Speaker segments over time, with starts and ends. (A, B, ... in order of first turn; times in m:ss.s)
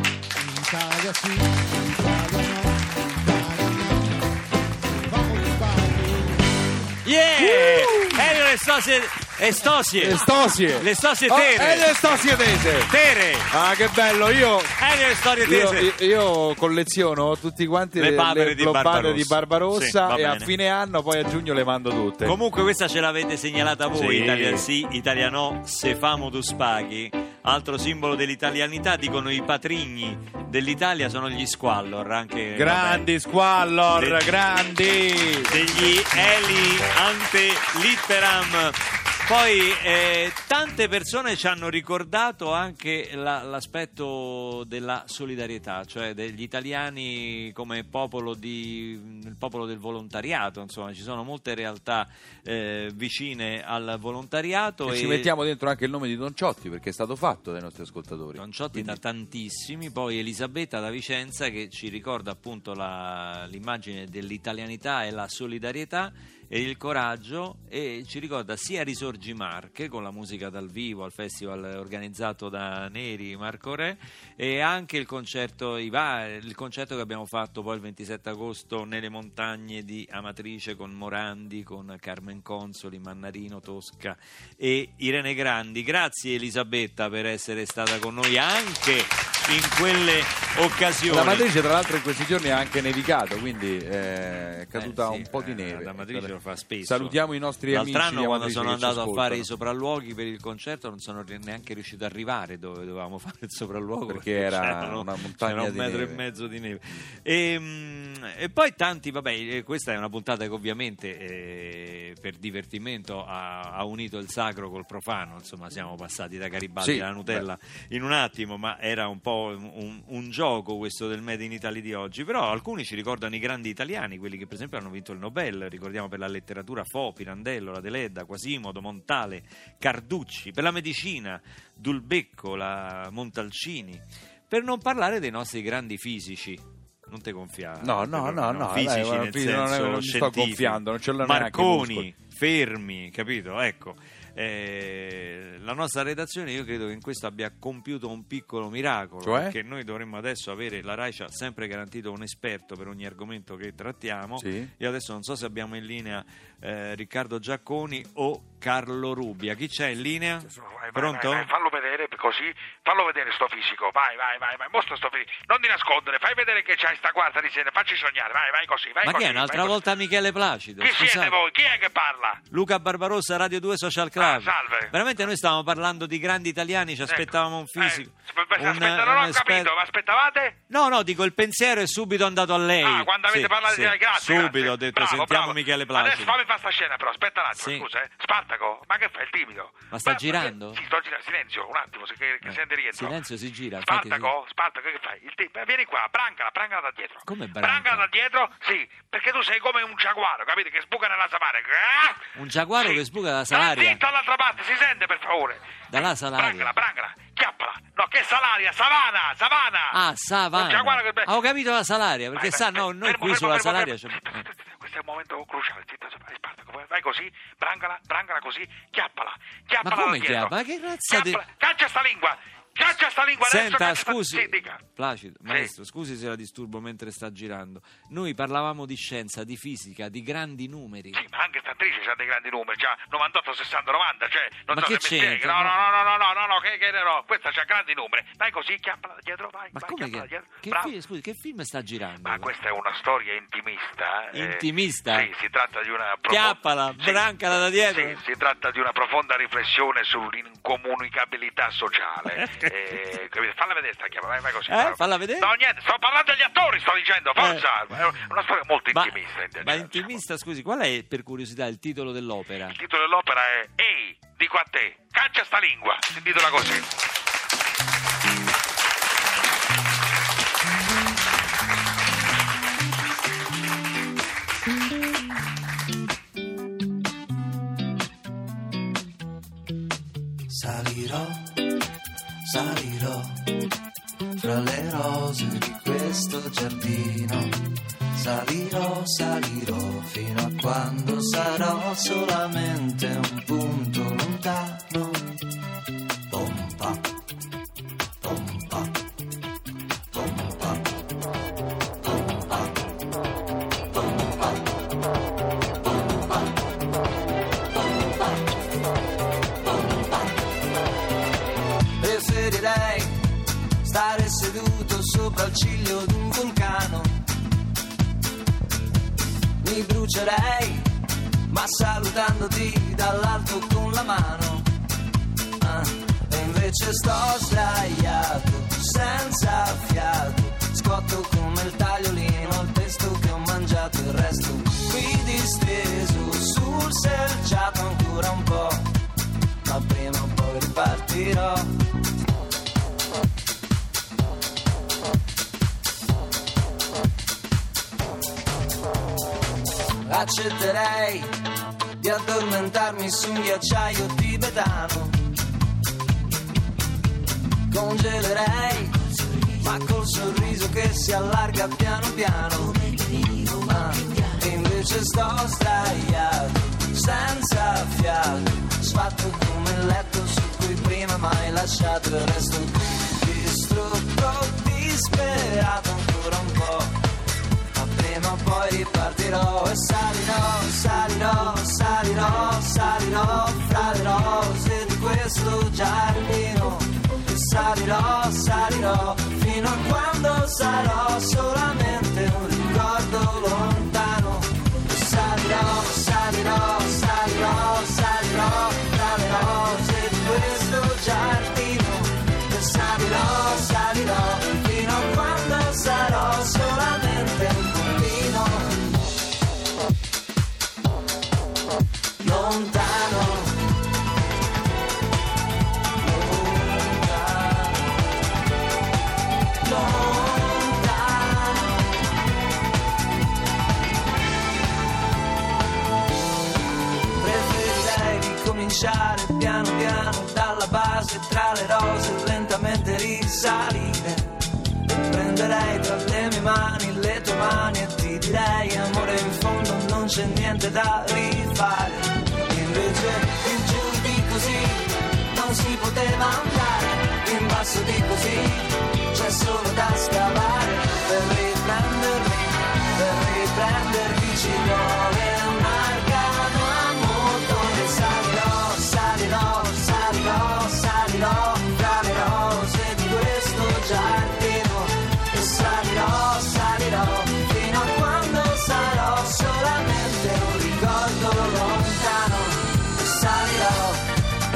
0:00.4-0:04.1 A
0:05.0-0:06.3 A
0:07.0-0:10.3 B
0:07.4-0:08.3 C
0:10.0-0:12.9 C
0:10.8-0:12.1 B
0:12.7-0:13.5 B
0:13.5-0:14.7 C
0:14.8-0:15.9 B
0:15.4-0:22.4 C
0:18.0-0:20.5 B
0:22.2-0:33.0 B
0:23.9-0:24.7 C
0:32.5-0:35.5 C
0:33.9-0:34.4 B
0:35.4-0:55.3 B
0:54.8-0:59.0 C
0:58.4-1:31.5 B
1:31.1-1:39.5 C
1:34.7-1:37.2 B
1:37.7-2:41.5 B
1:44.1-1:46.2 C
1:56.8-1:57.4 C
2:17.8-2:22.1 C
2:29.2-2:29.5 C
2:34.4-2:34.7 C
2:40.5-2:49.8 D
2:49.0-2:51.4 B
2:50.8-2:52.4 D
2:52.5-2:59.7 B
2:54.2-2:54.9 D
2:57.0-3:00.6 D
3:00.7-3:06.4 B
3:02.8-3:13.2 D
3:07.5-3:07.9 B
3:09.9-3:10.8 B
3:12.4-3:14.4 B
3:13.8-3:22.3 D
3:17.2-3:18.1 B
3:22.3-3:24.0 B
3:22.8-3:30.0 D
3:25.9-3:26.8 B
3:29.9-3:34.4 B
3:30.5-3:31.3 D
3:32.4-3:40.5 D
3:39.8-3:41.4 B
3:41.0-3:44.8 D
3:43.4-3:51.2 B
3:51.1-4:00.9 D
3:54.7-3:55.8 B
3:59.7-4:02.5 B
4:02.2-4:07.2 D
4:04.3-4:05.3 B
4:06.3-4:08.2 B
4:07.8-4:20.2 D
4:12.3-4:12.8 B
4:14.7-4:15.5 B
4:17.4-4:17.6 B
4:18.9-4:22.8 B
4:22.7-4:26.9 D
4:40.5-4:41.8 E
4:42.4-4:43.6 E
4:44.4-4:55.4 E
4:56.3-4:57.0 E
4:58.2-4:58.9 E
5:00.1-5:00.7 E
5:12.0-5:17.1 E
5:19.6-5:20.9 E
5:21.5-5:24.7 E
5:25.6-5:38.9 E
5:39.6-5:41.8 E
5:50.0-5:51.3 E
5:52.0-5:55.2 E
5:57.7-6:17.0 E
6:17.7-6:49.1 E
6:52.2-6:53.7 E
6:56.0-6:58.1 E
6:59.6-7:02.0 E
7:07.2-7:14.3 E
7:15.0-7:54.1 E